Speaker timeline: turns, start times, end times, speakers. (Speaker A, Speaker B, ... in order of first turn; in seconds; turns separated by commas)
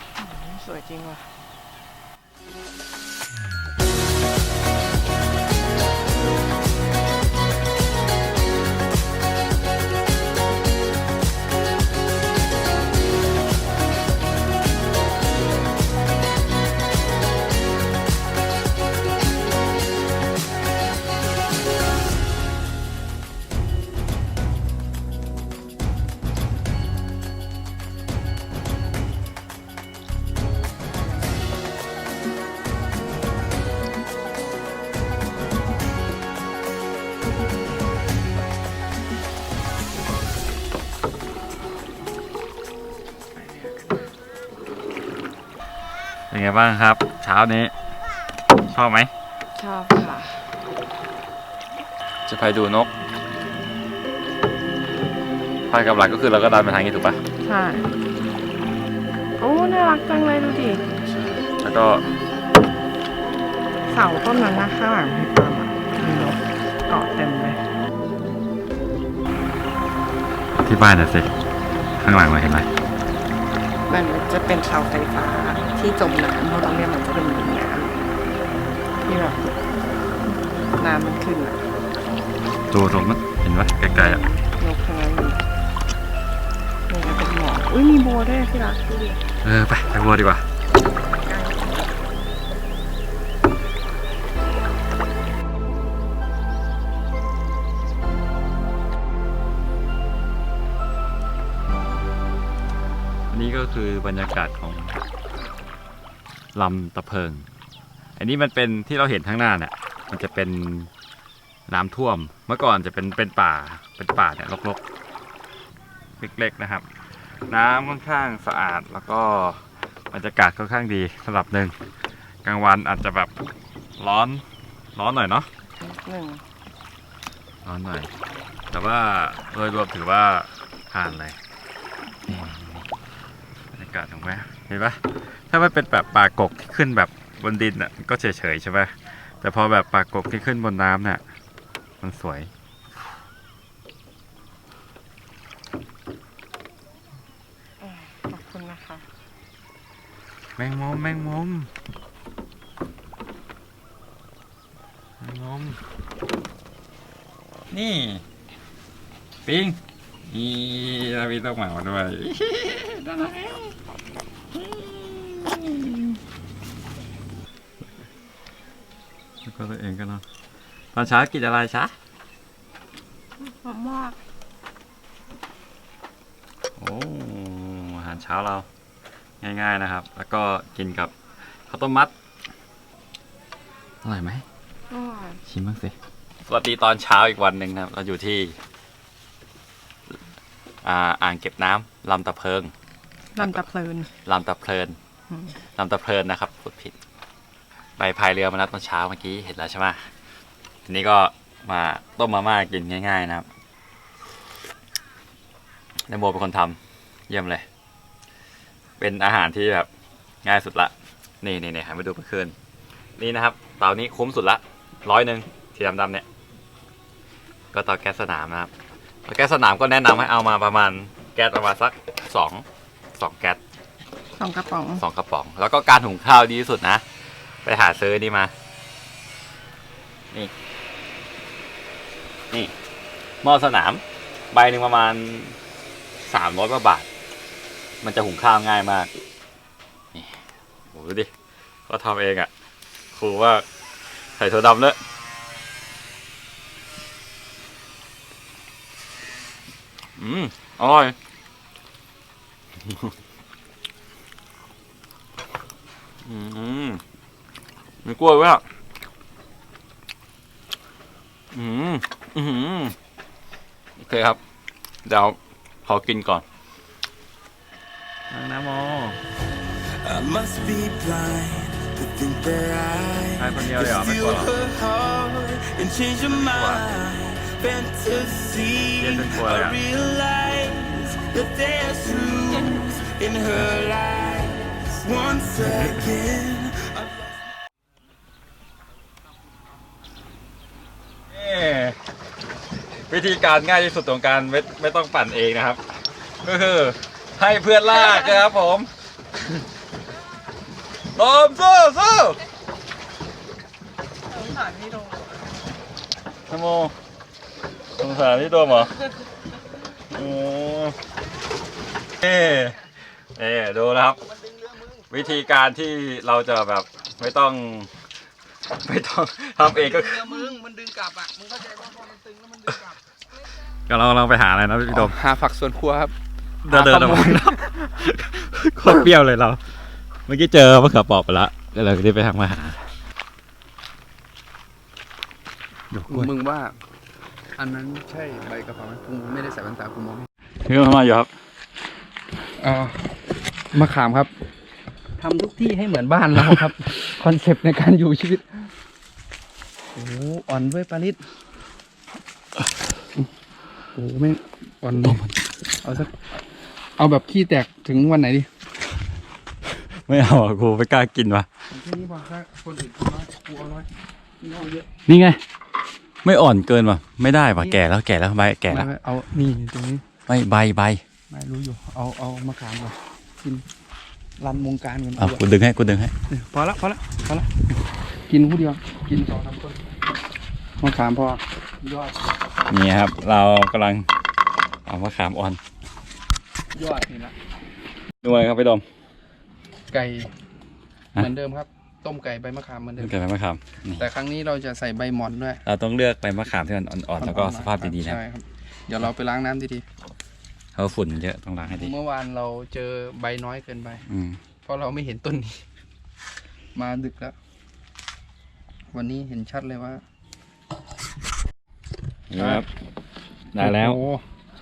Speaker A: 0.2-1.2, Speaker B: 46.3-47.7, Speaker B: 48.7-49.1, Speaker A: 49.5-50.5, Speaker B: 52.2-52.9, Speaker B: 55.7-57.2, Speaker A: 57.4-57.9, Speaker A: 59.4-60.8, Speaker B: 61.0-62.0, Speaker A: 63.9-67.6, Speaker B: 70.6-71.3, Speaker B: 72.0-72.7, Speaker A: 73.9-78.0, Speaker A: 79.0-79.5, Speaker A: 80.3-81.6, Speaker B: 82.7-84.2, Speaker A: 83.9-85.4, Speaker A: 86.9-89.2, Speaker B: 89.4-90.4, Speaker A: 91.2-91.9, Speaker B: 103.3-105.0, Speaker B: 106.5-107.5, Speaker B: 108.2-110.9, Speaker B: 111.7-114.8, Speaker B: 116.2-116.8, Speaker B: 117.5-121.7, Speaker B: 122.4-123.3, Speaker B: 124.0-124.4, Speaker B: 125.0-125.5, Speaker A: 125.8-126.4, Speaker B: 127.6-128.1, Speaker B: 128.7-131.4, Speaker B: 132.3-132.8, Speaker B: 133.7-135.0, Speaker B: 135.5-141.2, Speaker B: 142.0-142.5, Speaker A: 147.8-149.0, Speaker B: 150.6-151.7, Speaker B: 155.2-155.8, Speaker B: 157.7-158.2, Speaker B: 159.4-159.8, Speaker B: 160.3-163.7, Speaker B: 164.5-166.1, Speaker B: 169.4-170.2, Speaker B: 170.9-171.9, Speaker A: 173.6-174.2, Speaker B: 176.8-178.7, Speaker B: 179.4-181.1, Speaker B: 181.7-182.1, Speaker B: 184.0-184.4, Speaker A: 184.9-185.4, Speaker B: 185.5-185.9, Speaker B: 186.5-188.6, Speaker B: 190.8-192.7, Speaker A: 193.3-194.1, Speaker B: 193.4-193.6, Speaker B: 194.2-195.0, Speaker B: 195.8-196.9, Speaker B: 198.0-200.1, Speaker B: 200.8-203.4, Speaker B: 206.1-206.8, Speaker B: 207.3-207.6, Speaker B: 209.0-209.9, Speaker B: 210.4-212.5, Speaker B: 213.2-216.2, Speaker B: 217.7-218.7, Speaker B: 219.2-222.6, Speaker B: 223.2-223.6, Speaker A: 224.4-225.0, Speaker B: 225.0-227.0, Speaker B: 227.6-228.5, Speaker B: 233.4-235.6, Speaker B: 236.2-237.1, Speaker B: 238.0-239.1, Speaker B: 240.9-241.3, Speaker B: 241.9-242.5, Speaker B: 243.1-243.6, Speaker B: 244.4-245.0, Speaker B: 250.2-251.1, Speaker B: 252.9-253.1, Speaker B: 256.2-257.0, Speaker B: 258.0-258.6, Speaker B: 261.5-262.9, Speaker B: 264.0-264.4, Speaker B: 265.0-266.4, Speaker B: 268.3-269.2, Speaker C: 270.0-287.3, Speaker B: 273.4-274.5, Speaker B: 276.3-276.9, Speaker B: 279.0-279.8, Speaker B: 291.3-292.0, Speaker B: 293.1-295.8, Speaker B: 296.4-298.9, Speaker B: 301.1-302.4, Speaker A: 304.3-305.2, Speaker B: 306.5-306.9, Speaker B: 308.0-308.9, Speaker B: 310.1-310.9, Speaker B: 312.2-312.8, Speaker B: 313.4-314.2, Speaker B: 315.1-317.9, Speaker B: 318.7-320.4, Speaker D: 319.8-322.9, Speaker B: 323.9-325.1, Speaker D: 324.9-326.1, Speaker B: 326.6-329.6, Speaker D: 326.7-327.5, Speaker B: 330.3-332.8, Speaker B: 335.9-336.3, Speaker D: 336.1-336.8, Speaker D: 337.6-340.3, Speaker B: 340.6-341.3, Speaker D: 342.6-343.1, Speaker D: 343.7-344.3, Speaker D: 345.2-348.7, Speaker D: 349.9-351.2, Speaker D: 353.9-355.2, Speaker D: 355.8-356.2, Speaker D: 357.0-358.5, Speaker B: 360.1-361.5, Speaker D: 361.7-363.9, Speaker D: 364.4-364.9, Speaker B: 365.1-365.4, Speaker B: 366.2-368.9, Speaker D: 368.7-370.0, Speaker B: 370.3-371.0, Speaker D: 371.3-373.6, Speaker D: 374.4-375.4, Speaker B: 375.2-376.1, Speaker D: 376.3-377.5, Speaker D: 378.3-379.8, Speaker D: 380.8-382.2, Speaker B: 382.7-384.1, Speaker B: 384.9-385.6, Speaker D: 386.7-387.3, Speaker B: 388.2-388.8, Speaker D: 389.9-390.3, Speaker D: 391.1-393.1, Speaker B: 393.0-394.1, Speaker D: 394.0-395.6, Speaker B: 395.6-398.2, Speaker D: 397.2-399.8, Speaker B: 400.8-401.9, Speaker D: 401.7-404.0, Speaker B: 404.1-404.4, Speaker D: 404.6-405.6, Speaker D: 406.7-407.3, Speaker D: 408.9-410.0, Speaker B: 412.3-412.6, Speaker D: 412.4-412.6, Speaker B: 413.5-414.0, Speaker D: 413.6-414.2